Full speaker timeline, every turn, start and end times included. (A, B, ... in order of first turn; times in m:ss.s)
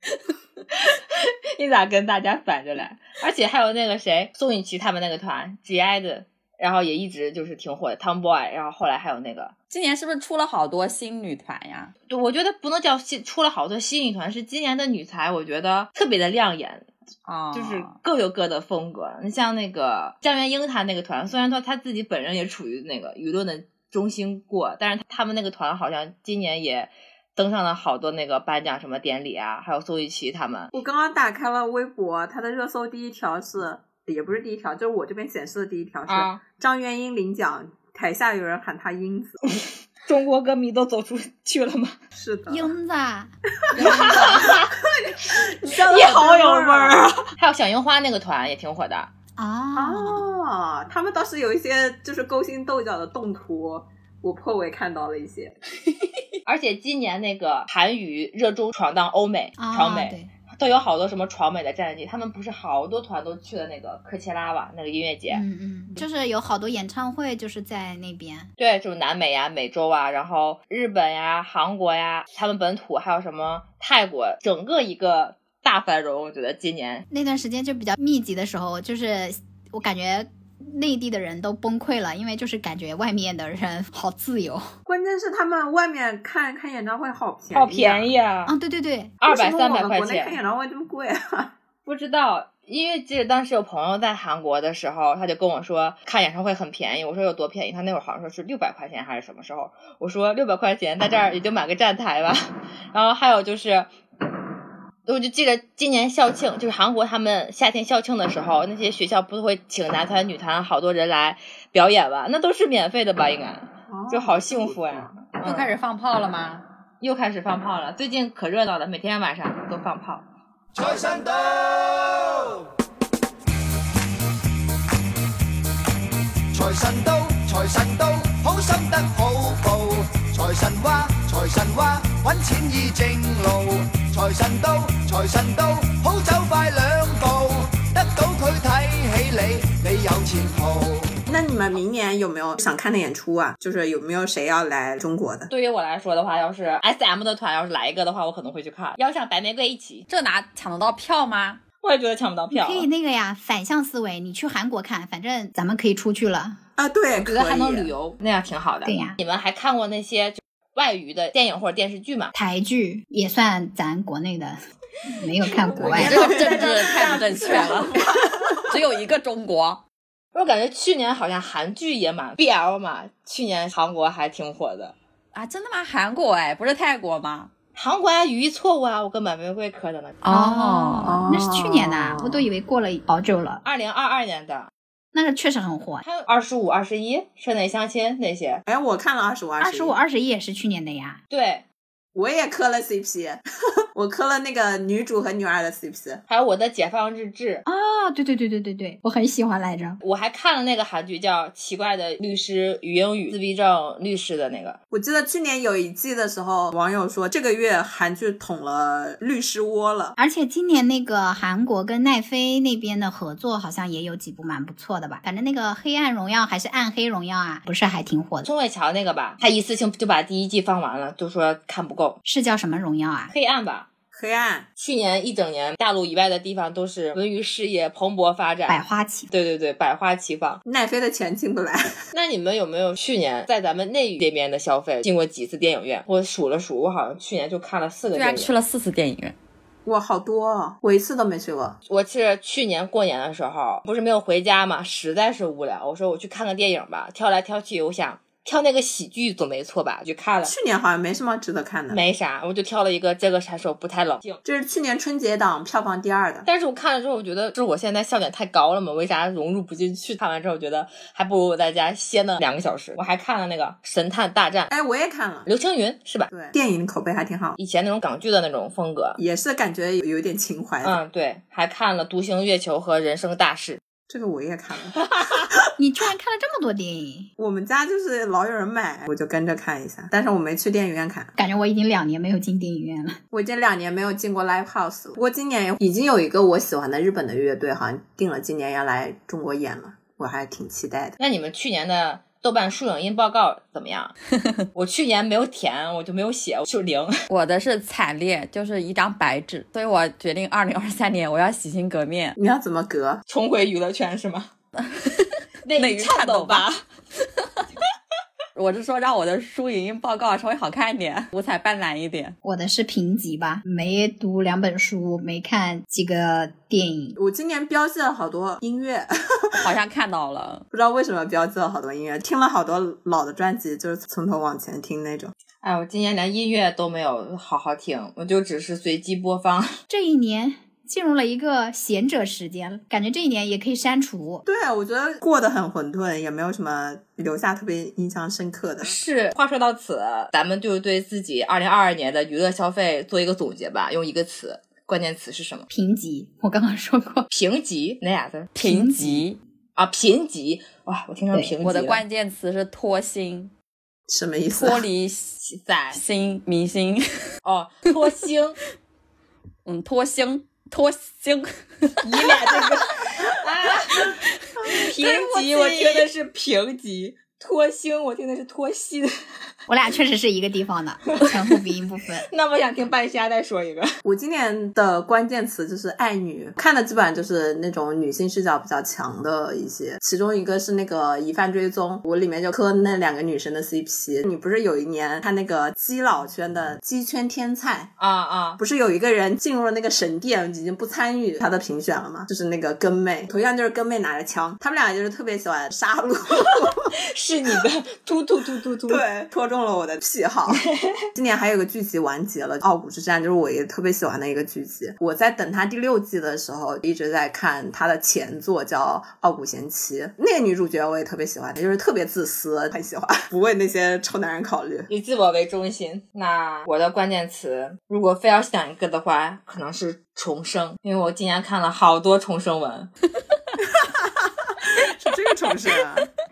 0:00.8-0:09.5 A
0:09.7-0:11.9 B
0:12.1-0:16.9 A
0:17.3-0:18.0 B
0:17.5-0:30.7 A
0:30.7-0:39.4 C
0:36.1-0:36.4 A
0:40.1-0:42.0 A
0:42.2-0:42.7 C
0:42.5-0:44.5 D
0:43.7-0:47.1 C
0:43.8-0:44.7 A
0:45.7-0:49.1 A
0:49.4-0:50.3 D
0:49.8-0:55.6 C
0:56.5-1:05.4 A
0:59.6-1:00.3 D
1:05.3-1:08.5 D
1:08.6-1:17.0 A
1:17.1-1:24.7 D
1:24.9-1:28.1 C
1:27.5-1:28.5 A
1:28.5-1:29.2 D
1:29.2-1:30.4 A
1:29.3-1:31.5 C
1:31.9-1:43.9 A
1:45.1-1:55.7 A
1:53.9-1:55.1 C
1:55.4-1:56.6 B
1:57.0-2:00.3 A
2:00.7-2:02.6 E
2:06.5-2:21.1 E
2:21.3-2:25.5 C
2:25.5-2:30.1 A
2:30.1-2:31.6 B
2:31.8-2:32.9 A
2:32.5-2:36.6 D
2:36.8-2:37.9 C
2:37.2-2:42.3 A
2:38.8-2:39.2 D
2:42.3-2:44.6 D
2:45.2-2:46.7 D
2:45.8-2:48.7 C
2:45.9-2:48.0 B
2:46.0-2:47.6 A
2:48.7-2:49.8 B
2:50.3-2:55.0 A
2:55.3-2:57.5 B
2:57.8-3:00.2 A
3:00.2-3:01.2 B
3:00.3-3:03.6 D
3:01.0-3:02.4 C
3:03.6-3:04.7 A
3:05.1-3:06.0 D
3:06.0-3:08.6 A
3:08.7-3:10.0 C
3:09.6-3:11.2 D
3:11.3-3:11.6 A
3:12.2-3:13.4 C
3:14.0-3:16.2 C
3:16.3-3:17.6 A
3:17.7-3:20.0 D
3:20.0-3:24.8 A
3:24.9-3:30.2 C
3:30.2-3:38.5 D
3:38.4-3:42.2 A
3:42.2-3:43.3 D
3:43.3-3:43.9 A
3:44.1-3:44.7 C
3:44.8-3:50.6 A
3:48.7-3:49.3 D
3:50.6-3:51.9 C
3:52.1-3:58.5 A
3:58.1-3:59.4 B
3:59.8-4:01.8 C
4:01.9-4:10.5 A
4:10.4-4:12.0 C
4:11.9-4:14.4 A
4:14.4-4:16.5 C
4:16.5-4:24.7 A
4:24.7-4:25.5 C
4:25.5-4:26.3 A
4:26.3-4:27.6 C
4:27.6-4:29.2 A
4:29.2-4:31.0 C
4:30.8-4:33.8 A
4:34.1-4:35.1 C
4:35.0-4:35.5 A
4:35.8-4:37.3 D
4:37.4-4:41.3 C
4:41.4-4:43.2 D
4:43.3-4:51.2 C
4:51.2-4:54.1 A
4:54.8-4:57.2 A
4:57.3-5:02.4 B
5:02.4-5:03.2 C
5:03.3-5:04.5 A
5:04.8-5:06.7 B
5:05.6-5:06.8 A
5:08.6-5:12.4 B
5:12.4-5:17.2 D
5:17.2-5:19.6 C
5:19.6-5:20.6 B
5:20.7-5:25.3 C
5:25.6-5:29.8 A
5:29.9-5:34.4 D
5:34.5-5:39.0 C
5:38.8-5:45.7 A
5:45.7-5:47.3 D
5:47.3-5:48.5 A
5:48.6-5:49.4 B
5:48.6-5:49.2 D
5:49.8-5:52.0 A
5:51.6-5:53.5 B
5:54.1-5:54.8 C
5:54.5-5:55.4 B
5:55.4-5:56.0 A
5:55.9-5:57.0 B
5:57.4-5:58.6 A
5:59.7-6:02.3 B
6:02.0-6:04.2 A
6:04.6-6:06.1 C
6:04.7-6:09.1 A
6:09.7-6:12.3 D
6:11.1-6:11.4 A
6:12.3-6:13.9 A
6:14.0-6:27.9 C
6:28.0-6:28.6 A
6:28.6-6:36.8 C
6:37.1-6:39.0 A
6:38.9-6:54.9 C
6:40.5-6:40.9 A
6:54.9-7:02.9 A
7:03.6-7:04.1 C
7:04.8-7:06.1 C